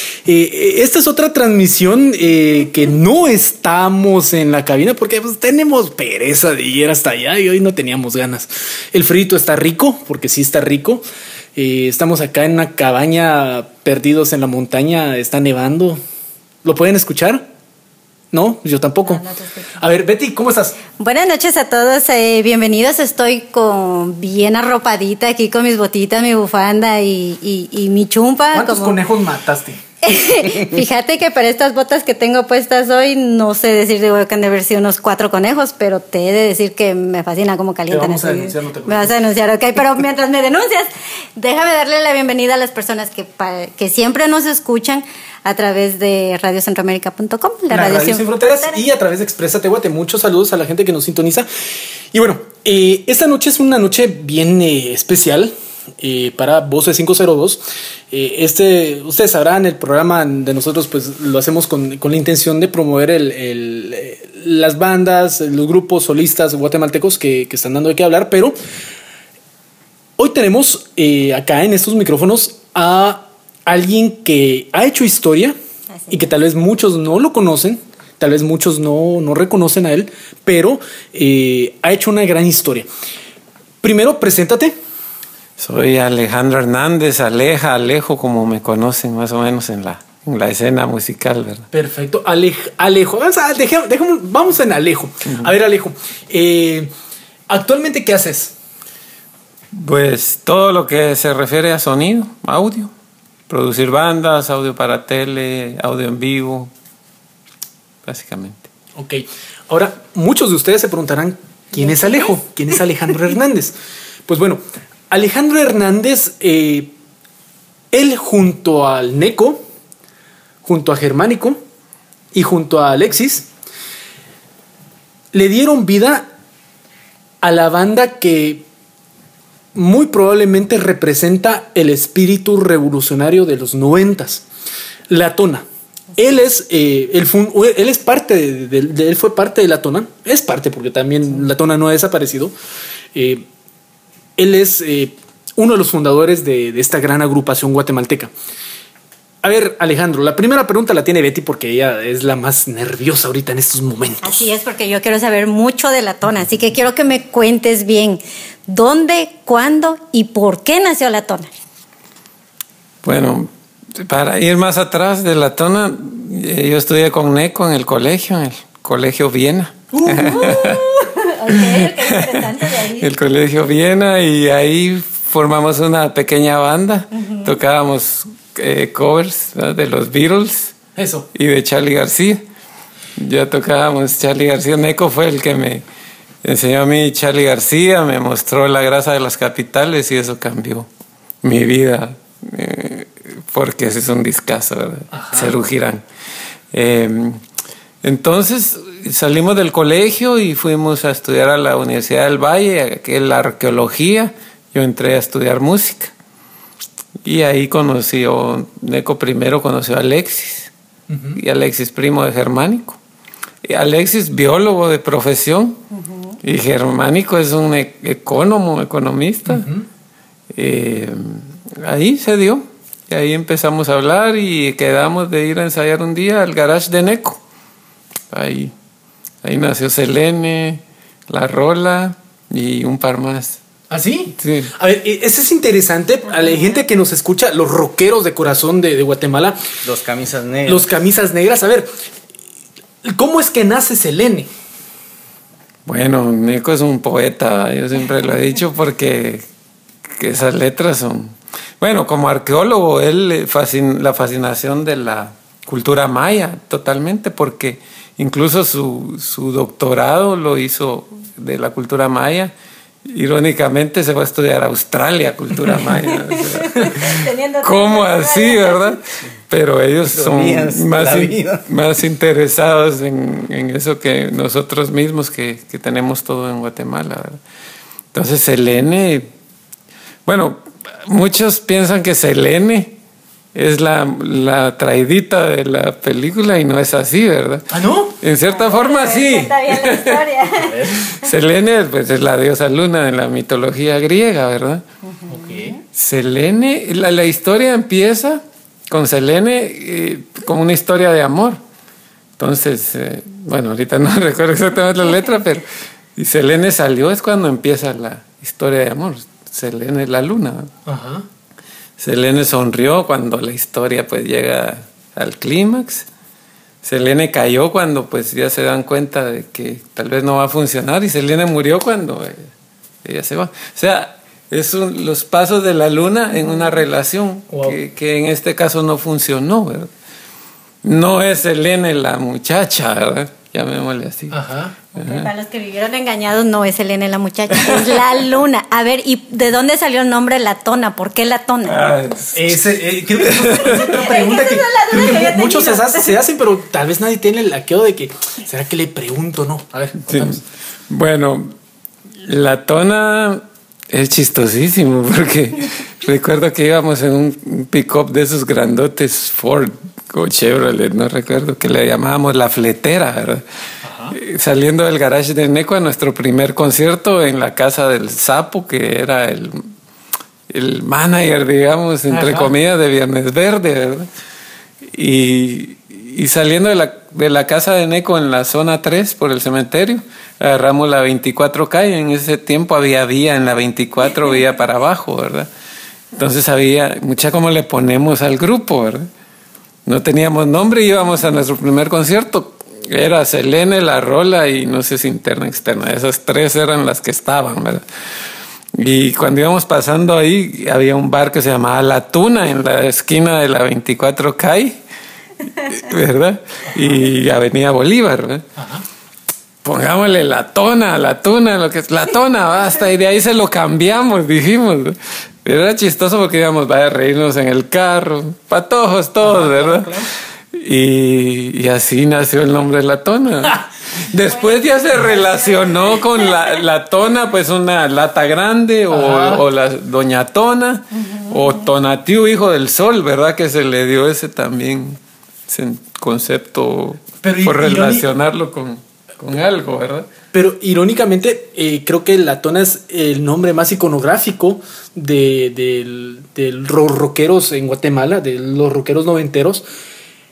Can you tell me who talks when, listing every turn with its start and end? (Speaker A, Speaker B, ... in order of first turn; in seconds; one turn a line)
Speaker A: 0.2-11.0
Speaker A: 11.6-16.0
Speaker A: 16.6-17.5
Speaker A: 18.3-19.2
Speaker B: 19.1-19.8
Speaker A: 19.8-20.8
Speaker B: 21.0-29.0
Speaker A: 28.5-29.8
Speaker B: 30.0-48.8
Speaker A: 37.9-39.2
Speaker A: 47.7-51.5
Speaker A: 52.1-68.6
Speaker A: 70.2-75.6
Speaker B: 76.0-76.3
Speaker A: 76.1-82.9
Speaker A: 83.8-84.8
Speaker C: 85.6-91.7
Speaker A: 91.7-96.9
Speaker A: 97.5-98.5
Speaker C: 99.7-102.9
Speaker C: 103.5-106.7
Speaker C: 108.0-108.7
Speaker A: 109.0-113.7
Speaker B: 111.8-112.1
Speaker A: 114.3-116.9
Speaker A: 117.9-119.6
Speaker A: 120.6-121.6
Speaker A: 122.3-123.5
Speaker A: 125.3-126.3
Speaker A: 127.4-128.7
Speaker A: 129.8-134.4
Speaker A: 135.1-135.7
Speaker A: 136.2-142.5
Speaker A: 143.2-143.5
Speaker A: 144.4-148.3
Speaker A: 149.4-154.5
Speaker B: 154.2-161.5
Speaker C: 163.0-170.8
Speaker A: 169.9-170.7
Speaker B: 170.1-173.1
Speaker C: 171.5-172.4
Speaker C: 173.0-180.8
Speaker B: 177.2-177.6
Speaker A: 181.0-181.3
Speaker C: 181.3-182.4
Speaker C: 183.2-185.8
Speaker C: 186.4-190.9
Speaker C: 191.4-196.0
Speaker A: 195.1-195.5
Speaker C: 196.7-197.4
Speaker C: 198.0-206.1
Speaker C: 207.2-210.7
Speaker A: 211.1-211.4
Speaker C: 211.3-213.0
Speaker C: 213.6-215.8
Speaker B: 215.9-216.4
Speaker C: 216.4-219.7
Speaker A: 219.5-219.9
Speaker C: 220.5-227.4
Speaker C: 228.3-228.7
Speaker C: 229.4-233.6
Speaker A: 233.9-239.6
Speaker C: 234.4-234.7
Speaker D: 239.8-240.9
Speaker A: 240.7-241.9
Speaker A: 243.0-244.5
Speaker C: 245.9-249.4
Speaker C: 250.2-262.5
Speaker C: 263.1-277.4
Speaker B: 266.1-269.0
Speaker D: 270.1-271.6
Speaker C: 278.1-279.3
Speaker C: 280.3-282.9
Speaker C: 283.5-287.6
Speaker A: 287.7-288.1
Speaker C: 288.2-290.2
Speaker B: 288.5-291.1
Speaker A: 290.6-291.0
Speaker C: 290.9-294.8
Speaker B: 295.1-295.8
Speaker A: 295.3-295.7
Speaker C: 295.9-301.6
Speaker C: 302.4-310.7
Speaker A: 310.9-311.3
Speaker C: 312.0-316.1
Speaker C: 316.8-322.5
Speaker C: 323.0-329.9
Speaker A: 327.5-327.8
Speaker C: 330.8-334.4
Speaker A: 334.3-334.8
Speaker C: 335.0-335.3
Speaker B: 335.0-341.8
Speaker C: 337.6-337.9
Speaker C: 341.7-342.6
Speaker A: 342.4-350.4
Speaker C: 343.2-343.9
Speaker B: 343.7-346.1
Speaker C: 350.1-351.5
Speaker C: 352.2-363.4
Speaker A: 363.8-364.2
Speaker C: 364.1-369.7
Speaker C: 370.5-374.1
Speaker A: 372.1-372.5
Speaker C: 374.8-385.5
Speaker C: 386.1-389.1
Speaker C: 389.9-397.9
Speaker C: 398.7-404.8
Speaker C: 405.5-408.4
Speaker A: 408.6-408.9
Speaker C: 409.6-419.9
Speaker A: 419.2-420.1
Speaker C: 420.5-440.1
Speaker B: 424.3-426.3
Speaker A: 428.9-429.4
Speaker B: 431.0-431.5
Speaker A: 437.2-438.1
Speaker A: 440.3-449.6